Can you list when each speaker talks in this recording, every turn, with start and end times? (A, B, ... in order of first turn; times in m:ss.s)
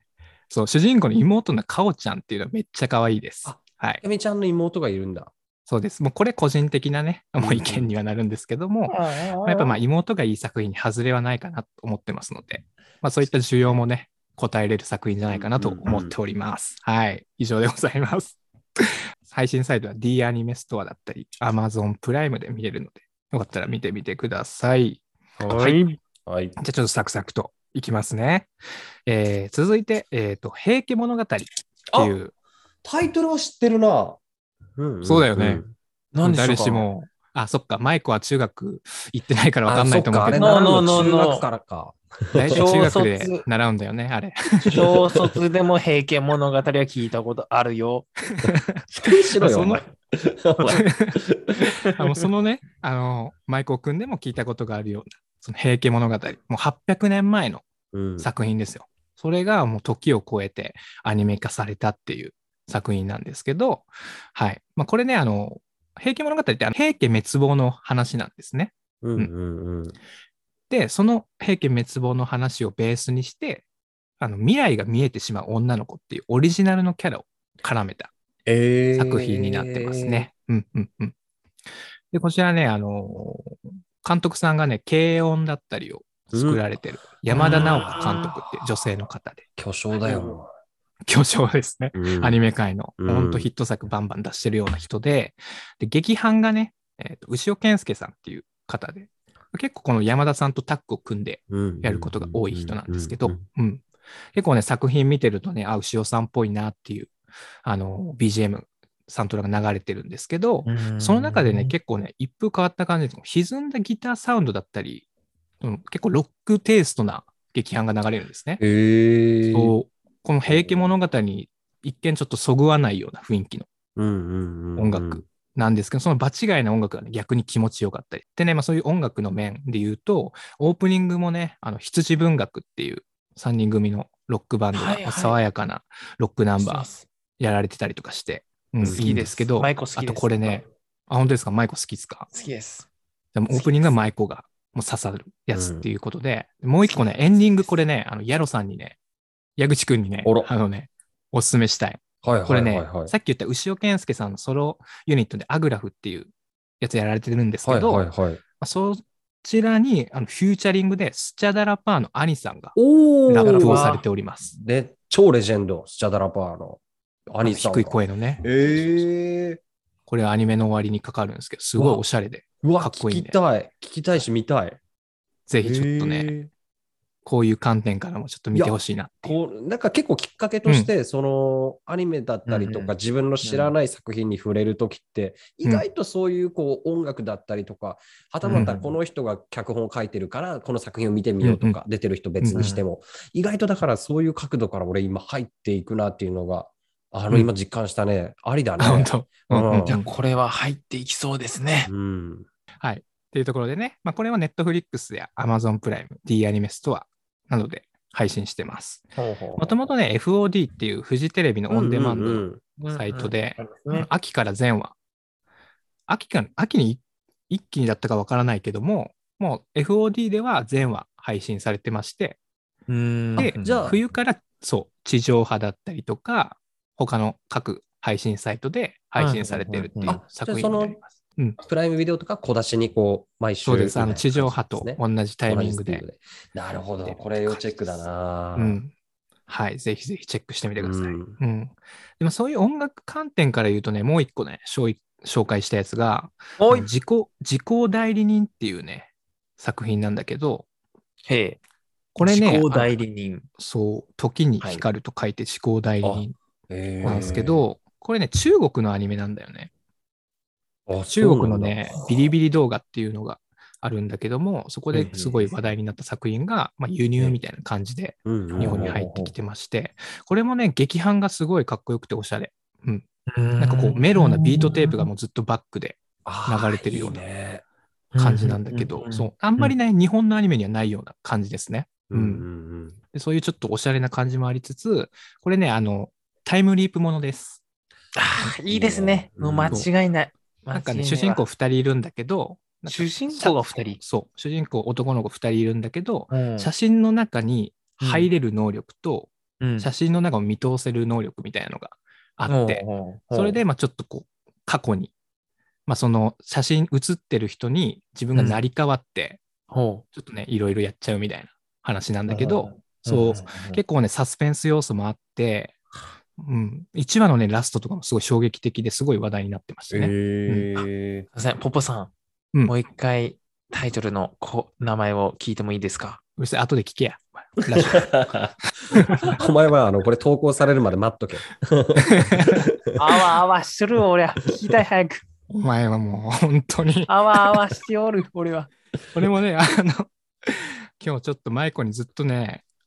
0:00.5-0:04.0 A
0:03.4-0:05.3 B
0:05.7-0:25.8 A
0:07.4-0:07.9 B
0:08.9-0:09.8 C
0:15.2-0:16.1 B
0:25.4-0:25.7 B
0:25.5-0:26.0 C
0:26.2-0:26.5 B
0:26.6-0:28.5 A
0:29.0-0:32.3 A
0:32.8-0:34.2 B
0:34.8-0:35.7 B
0:35.0-0:35.6 A
0:36.1-0:36.8 C
0:36.2-0:40.6 A
0:39.7-0:42.6 B
0:40.3-0:41.4 C
0:42.3-0:44.9 A
0:42.5-0:43.4 C
0:44.6-0:45.4 B
0:44.7-0:48.1 C
0:48.4-0:49.8 A
0:48.9-0:51.7 B
0:50.7-0:51.2 A
0:51.9-0:57.6 A
0:51.9-0:52.3 C
0:57.9-0:58.3 B
0:58.2-1:09.3 A
1:09.0-1:10.0 B
1:10.7-1:13.6 A
1:14.2-1:18.1 A
1:18.4-1:20.3 B
1:18.9-1:21.1 A
1:22.1-1:29.4 A
1:26.3-1:26.6 B
1:27.3-1:28.4 C
1:29.6-1:30.5 B
1:31.1-1:43.8 A
1:31.9-1:32.4 B
1:33.0-1:33.5 B
1:41.5-1:43.4 B
1:44.3-1:47.1 A
1:47.6-1:55.0 A
1:50.6-1:51.7 C
1:55.6-1:58.6 A
1:58.6-1:59.7 B
1:59.5-2:03.7 A
2:00.4-2:00.9 B
2:04.0-2:05.2 B
2:04.8-2:16.9 A
2:14.7-2:15.4 C
2:16.6-2:17.0 C
2:17.4-2:22.3 A
2:18.8-2:20.6 C
2:22.3-2:22.9 C
2:23.3-2:29.0 A
2:23.5-2:23.9 C
2:25.5-2:25.8 B
2:29.6-2:38.0 A
2:32.2-2:33.1 B
2:37.6-2:38.4 B
2:38.6-2:42.7 A
2:42.7-2:43.8 B
2:43.3-2:44.5 A
2:43.4-2:44.0 C
2:44.5-2:49.6 B
2:47.4-2:48.4 A
2:50.1-2:53.4 A
2:51.8-2:52.0 B
2:52.6-2:54.8 B
2:55.5-2:56.3 A
2:55.6-2:56.5 B
2:57.2-2:59.4 A
2:58.5-3:19.9 B
3:00.6-3:00.9 A
3:02.4-3:03.7 C
3:08.4-3:08.9 C
3:11.4-3:11.8 A
3:12.4-3:12.7 A
3:12.6-3:12.8 C
3:18.8-3:20.1 A
3:19.8-3:21.9 C
3:21.9-3:22.5 B
3:22.8-3:34.9 A
3:29.2-3:29.8 C
3:31.7-3:32.6 B
3:32.8-3:34.1 C
3:36.1-3:42.4 A
3:42.9-3:43.9 C
3:43.4-3:44.0 B
3:43.4-3:51.6 A
3:49.2-3:50.2 C
3:50.0-3:51.0 B
3:51.6-3:58.8 B
3:53.6-3:56.0 A
3:57.0-3:58.0 A
3:58.6-3:58.9 A
3:59.5-4:10.6 A
4:00.8-4:01.4 B
4:06.6-4:06.9 C
4:11.3-4:11.6 C
4:12.1-4:12.9 A
4:12.2-4:13.4 C
4:13.6-4:16.3 A
4:16.0-4:17.6 B
4:17.0-4:19.7 A
4:20.9-4:22.1 B
4:21.2-4:33.0 A
4:24.9-4:25.5 C
4:28.2-4:29.0 B
4:28.6-4:29.3 C
4:33.3-4:35.1 C
4:33.6-4:37.2 A
4:36.2-4:37.6 B
4:38.1-4:39.7 C
4:38.2-4:42.5 A
4:42.1-4:43.0 B
4:43.1-4:47.6 A
4:48.1-4:51.4 C
4:48.7-4:49.8 B
4:50.7-5:05.1 A
4:52.9-4:54.0 C
4:56.3-4:56.7 C
4:58.0-4:58.3 C
4:59.6-4:59.9 C
5:02.5-5:03.6 C
5:05.9-5:09.4 A
5:08.3-5:08.6 C
5:09.7-5:10.0 C
5:10.1-5:15.7 A
5:12.3-5:13.8 C
5:16.4-5:20.7 A
5:19.9-5:21.3 B
5:21.3-5:22.1 C
5:22.6-5:26.2 C
5:26.4-5:28.2 A
5:27.6-5:33.0 B
5:28.9-5:29.4 A
5:32.1-5:32.7 A
5:33.0-5:35.2 C
5:35.5-5:37.6 A
5:37.1-5:38.7 C
5:39.1-5:42.6 A